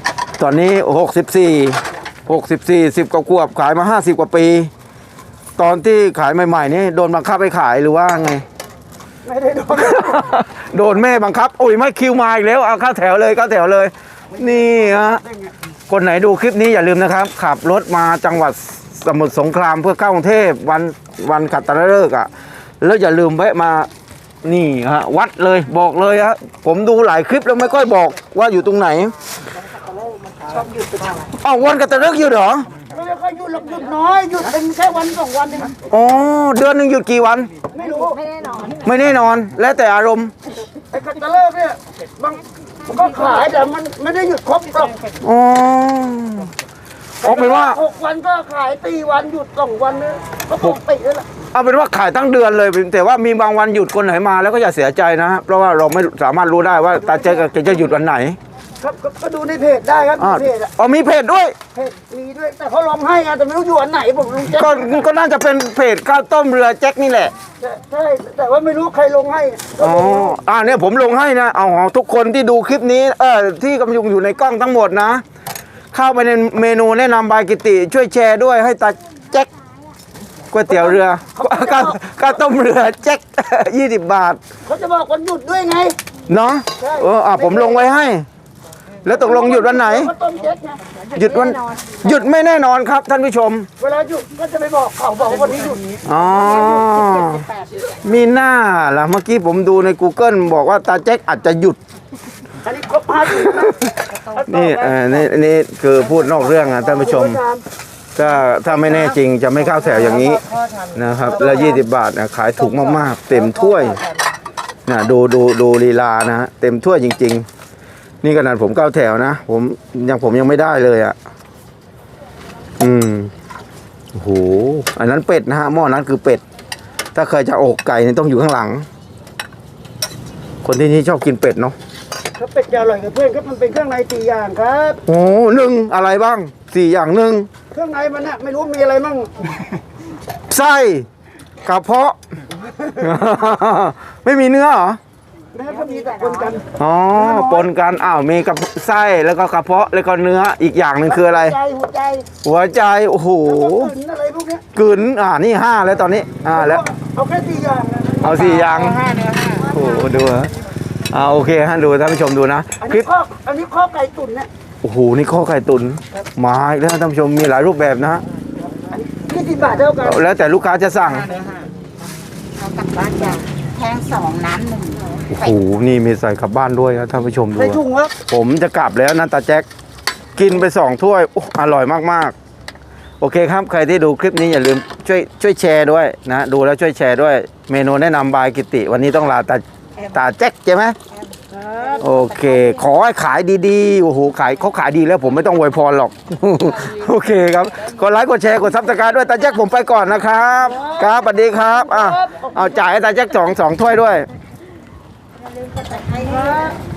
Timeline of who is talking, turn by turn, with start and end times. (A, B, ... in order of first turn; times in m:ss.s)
0:00.4-0:04.7 A
0:05.6-0:08.4 A
0:09.2-0:10.4 B
0:09.8-0:15.2 A
0:14.3-0:15.5 B
0:15.9-0:22.3 A
0:22.8-0:23.9 A
0:24.4-0:29.2 A
0:30.5-0:31.1 C
0:31.3-0:32.7 A
0:32.9-0:35.8 B
0:35.9-0:37.5 A
0:37.7-0:38.2 B
0:38.0-0:38.8 C
0:38.8-0:40.3 A
0:40.9-0:45.1 B
0:45.2-0:46.5 A
0:47.2-0:47.8 A
0:47.2-0:51.3 B
0:51.5-0:58.4 A
0:58.8-1:00.7 B
1:00.2-1:01.6 A
1:01.7-1:05.0 B
1:04.4-1:07.3 A
1:07.6-1:10.4 B
1:09.8-1:15.2 A
1:15.9-1:19.5 A
1:20.5-1:24.4 A
1:20.7-1:22.0 B
1:24.6-1:26.0 B
1:26.3-1:28.3 A
1:26.8-1:27.9 B
1:29.0-1:30.1 A
1:29.1-1:30.8 B
1:31.1-1:32.2 C
1:31.1-1:33.7 A
1:33.8-1:36.0 B
1:36.0-1:41.8 A
1:36.4-1:37.8 C
1:42.6-1:45.3 B
1:43.4-1:43.9 A
1:44.5-1:47.4 A
1:46.2-1:47.6 B
1:48.2-1:50.4 A
1:48.7-1:49.2 B
1:49.7-1:51.8 B
1:50.9-1:54.0 A
1:52.6-1:54.2 B
1:54.9-1:57.5 A
1:58.2-2:01.2 A
2:02.8-2:03.3 A
2:04.1-2:06.4 A
2:07.1-2:08.9 A
2:10.6-2:11.8 A
2:12.4-2:15.0 B
2:15.1-2:17.5 A
2:17.7-2:19.5 B
2:20.5-2:21.1 A
2:21.6-2:22.2 A
2:23.0-2:25.0 A
2:25.5-2:26.6 B
2:25.7-2:26.5 C
2:26.8-2:31.6 A
2:27.2-2:27.7 B
2:31.1-2:32.3 B
2:32.4-2:33.9 A
2:33.4-2:34.6 B
2:34.8-2:36.8 A
2:36.5-2:38.5 B
2:38.2-2:40.5 A
2:41.1-2:43.0 A
2:42.8-2:44.5 B
2:44.8-2:48.2 A
2:48.9-2:50.3 B
2:50.0-2:51.3 A
2:51.3-2:51.7 C
2:52.5-2:55.6 C
2:55.3-2:59.7 A
2:57.6-2:58.1 B
3:00.4-3:02.4 A
3:03.2-3:11.0 A
3:11.5-3:12.1 B
3:12.0-3:24.3 A
3:12.4-3:12.8 C
3:20.6-3:22.8 B
3:25.4-3:26.7 C
3:26.2-3:26.8 B